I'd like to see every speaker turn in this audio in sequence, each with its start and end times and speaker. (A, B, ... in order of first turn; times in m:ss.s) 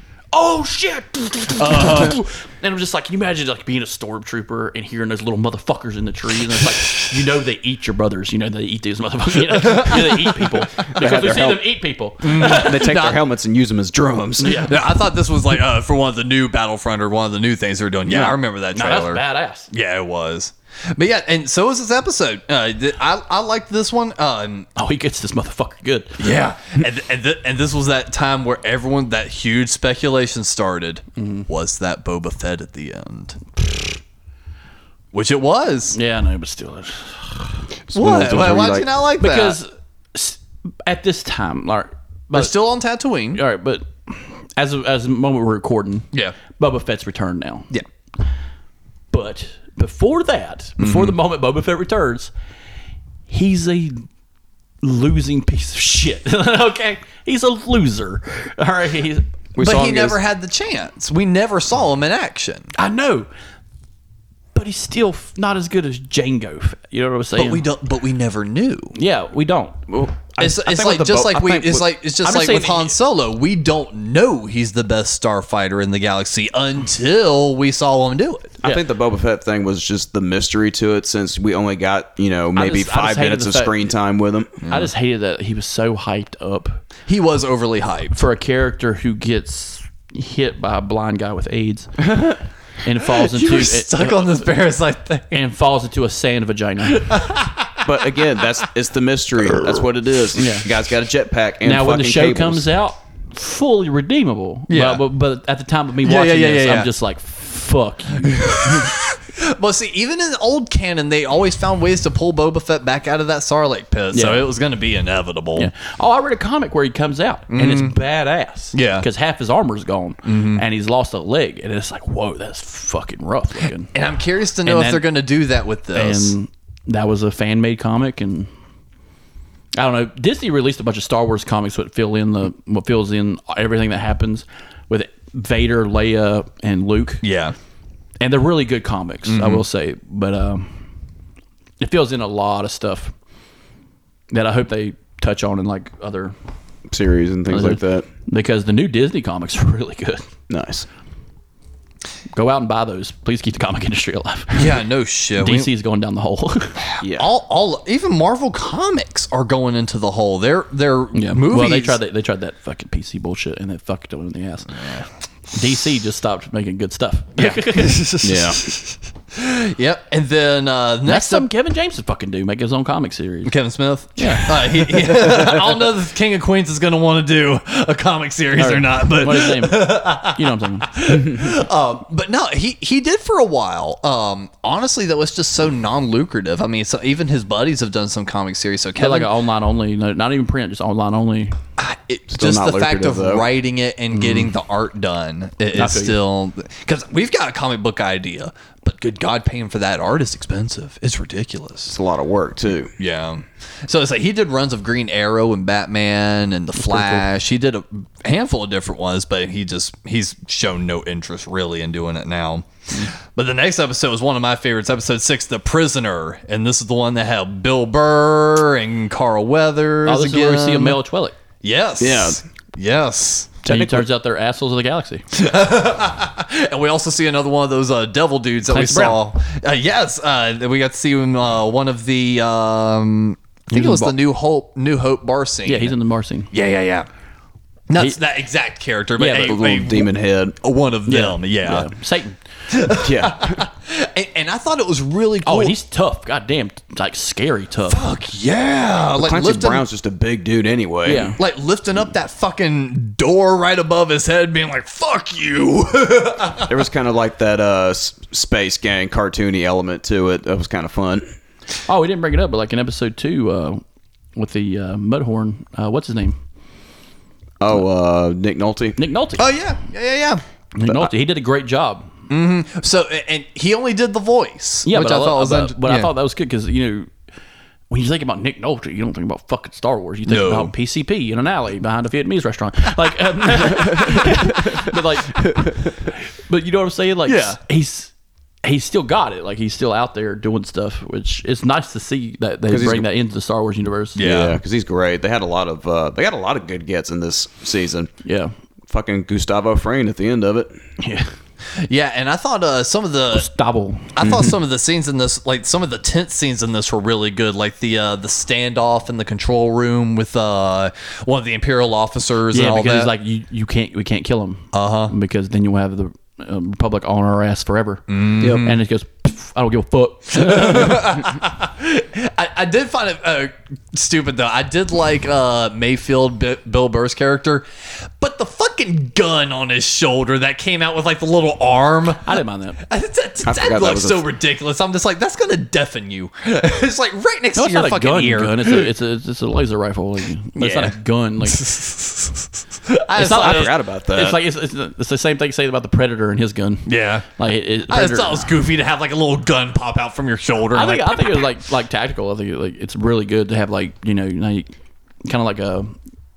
0:00.3-0:13.0 A
0:01.6-0:02.2 B
0:09.5-0:10.5 B
0:10.8-0:11.7 C
0:12.2-0:13.2 B
0:12.3-0:14.7 C
0:14.4-0:14.8 A
0:14.4-0:24.7 B
0:18.1-0:19.7 A
0:24.8-0:26.2 A
0:26.2-0:33.7 B
0:31.2-0:31.5 A
0:35.1-0:36.0 B
0:35.9-0:37.6 A
0:37.9-0:38.9 C
0:37.9-0:39.6 B
0:39.2-0:42.6 A
0:42.3-0:43.4 B
0:43.3-0:47.7 A
0:46.1-0:46.4 B
0:49.1-0:52.3 A
0:50.8-0:51.2 B
0:53.3-0:54.0 A
0:54.8-0:59.3 A
0:59.6-1:00.2 C
0:59.6-1:02.7 B
1:02.8-1:03.3 A
1:04.5-1:07.6 A
1:07.4-1:08.9 B
1:08.9-1:09.8 A
1:09.9-1:11.9 C
1:10.4-1:18.6 B
1:12.2-1:12.9 A
1:18.6-1:24.6 C
1:22.6-1:23.9 A
1:24.6-1:24.9 B
1:24.7-1:26.8 A
1:27.1-1:28.2 B
1:28.2-1:32.3 A
1:32.8-1:34.5 A
1:33.2-1:35.4 B
1:35.3-1:37.1 A
1:36.9-1:37.9 B
1:37.8-1:42.7 C
1:40.4-1:40.7 A
1:41.6-1:48.9 A
1:44.7-1:45.0 B
1:46.0-1:46.9 B
1:48.2-1:55.7 B
1:54.1-1:54.4 A
1:55.6-2:03.9 A
1:57.5-1:58.0 B
1:58.7-1:59.0 B
2:00.2-2:00.6 B
2:03.9-2:06.4 B
2:04.6-2:05.0 A
2:05.9-2:08.5 A
2:09.7-2:17.2 A
2:17.2-2:17.6 B
2:18.2-2:20.8 A
2:19.3-2:19.6 B
2:21.8-2:23.1 A
2:24.3-2:26.4 A
2:26.9-2:28.1 C
2:27.5-2:30.3 A
2:30.5-2:30.9 C
2:32.3-2:34.8 A
2:34.6-2:35.7 B
2:35.4-2:36.8 A
2:36.8-2:42.0 B
2:37.0-2:37.3 C
2:41.1-2:48.8 A
2:44.7-2:45.1 B
2:47.4-2:48.2 B
2:48.2-2:48.6 C
2:49.3-2:51.5 B
2:51.1-2:53.6 A
2:53.5-3:09.3 B
2:54.2-2:54.7 A
2:58.6-3:01.0 A
3:09.0-3:11.6 A
3:11.8-3:22.0 B
3:12.3-3:13.5 C
3:14.1-3:14.5 A
3:15.8-3:16.2 A
3:21.9-3:22.9 C
3:23.0-3:41.0 B
3:40.1-3:41.3 A
3:41.6-3:43.6 B
3:42.0-3:42.4 C
3:43.6-3:44.1 C
3:43.7-3:45.2 A
3:45.3-3:56.0 B
3:48.7-3:49.2 A
3:53.7-3:54.1 A
3:55.7-3:56.5 A
3:56.5-3:57.1 B
3:57.9-4:01.9 B
3:59.2-3:59.6 A
3:59.4-4:00.6 C
4:01.1-4:02.4 A
4:02.7-4:05.8 B
4:03.0-4:03.6 C
4:05.4-4:08.0 A
4:07.9-4:09.8 B
4:09.2-4:11.3 C
4:11.0-4:11.4 A
4:11.4-4:16.8 B
4:16.7-4:21.2 C
4:21.8-4:23.8 A
4:24.4-4:26.4 A
4:27.6-4:29.0 C
4:29.0-4:29.5 A
4:29.4-4:30.4 B
4:30.8-4:32.1 A
4:32.3-4:36.1 B
4:34.8-4:37.1 A
4:37.9-4:48.1 A
4:40.3-4:40.7 B
4:45.4-4:45.8 C
4:47.3-4:47.6 B
4:48.6-4:54.2 A
4:52.7-4:53.1 C
4:54.2-4:54.6 B
4:54.2-4:58.1 C
4:58.2-4:58.5 A
4:58.9-5:00.8 C
5:01.0-5:01.3 A
5:01.8-5:03.5 B
5:03.3-5:04.2 A
5:04.1-5:13.1 B
5:04.2-5:04.6 C
5:12.5-5:21.2 A
5:14.7-5:15.1 B
5:18.1-5:18.8 B
5:18.4-5:18.7 C
5:20.3-5:38.9 B
5:32.2-5:32.8 A
5:33.4-5:34.2 C
5:37.6-5:41.8 A
5:40.6-5:43.7 B
5:43.2-5:48.5 A
5:43.2-5:44.4 C
5:46.9-5:47.3 B
5:47.9-5:51.5 B
5:50.7-5:54.7 A
5:55.2-5:56.0 A